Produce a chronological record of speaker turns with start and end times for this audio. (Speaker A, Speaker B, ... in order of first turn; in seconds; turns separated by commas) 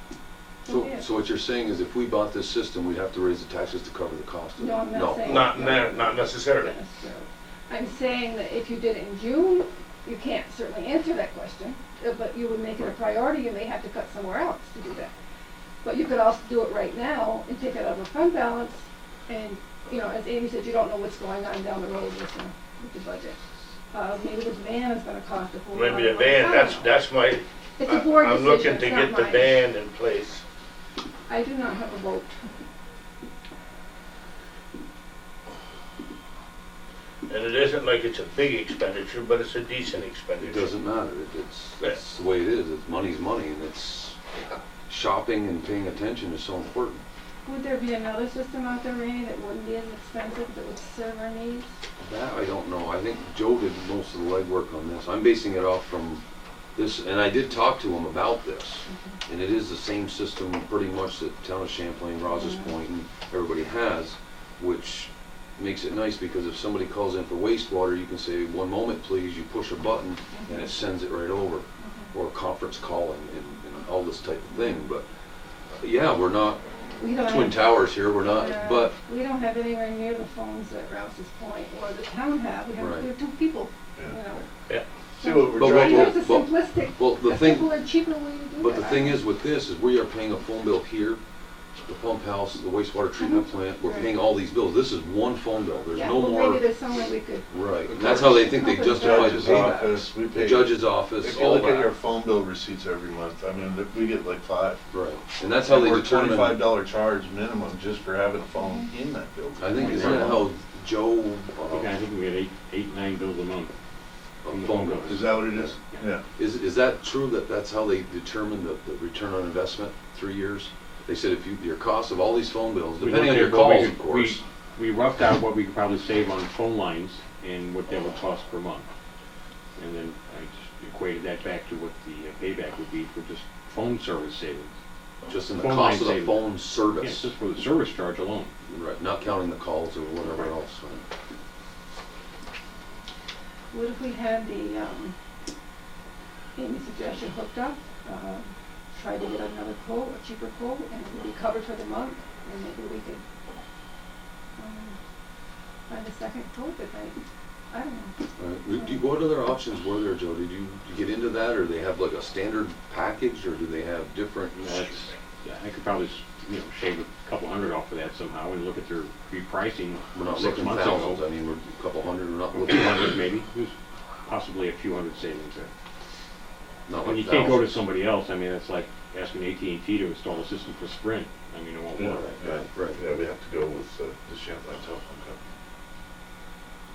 Speaker A: 0.6-1.0, Speaker B: 0.7-5.5, Speaker A: 4.6-15.1, Speaker C: 5.2-6.7, Speaker A: 15.8-23.4, Speaker A: 23.9-26.9, Speaker C: 25.7-30.4, Speaker A: 27.8-29.6, Speaker A: 31.3-32.3, Speaker C: 37.3-40.7, Speaker B: 40.4-44.2, Speaker B: 44.9-47.0, Speaker A: 47.5-51.7, Speaker B: 52.0-56.2, Speaker B: 56.7-75.0, Speaker A: 70.3-70.6, Speaker B: 75.7-78.9, Speaker A: 77.0-84.4, Speaker B: 82.8-83.1, Speaker D: 85.2-86.1, Speaker A: 85.2-89.2, Speaker B: 85.5-87.8, Speaker B: 88.6-91.2, Speaker B: 91.8-96.6, Speaker A: 95.9-97.5, Speaker B: 97.5-101.9, Speaker D: 97.9-104.8, Speaker A: 98.5-99.5, Speaker B: 104.9-106.6, Speaker D: 105.6-110.4, Speaker A: 108.6-108.8, Speaker B: 109.6-111.9, Speaker E: 109.7-110.4, Speaker E: 111.7-113.7, Speaker B: 114.4-115.8, Speaker E: 114.5-115.4, Speaker D: 115.0-116.2, Speaker B: 116.4-124.4, Speaker E: 123.0-128.9, Speaker E: 129.8-134.7, Speaker B: 135.3-137.3, Speaker E: 135.6-138.5, Speaker B: 138.7-141.0, Speaker A: 143.7-145.2, Speaker A: 146.6-153.2, Speaker A: 154.6-155.0, Speaker A: 155.9-157.2, Speaker A: 157.7-158.1, Speaker B: 158.4-164.8, Speaker E: 164.6-171.2, Speaker B: 170.1-173.2, Speaker E: 172.5-175.7, Speaker B: 176.9-177.7, Speaker E: 177.1-182.7, Speaker D: 181.9-185.4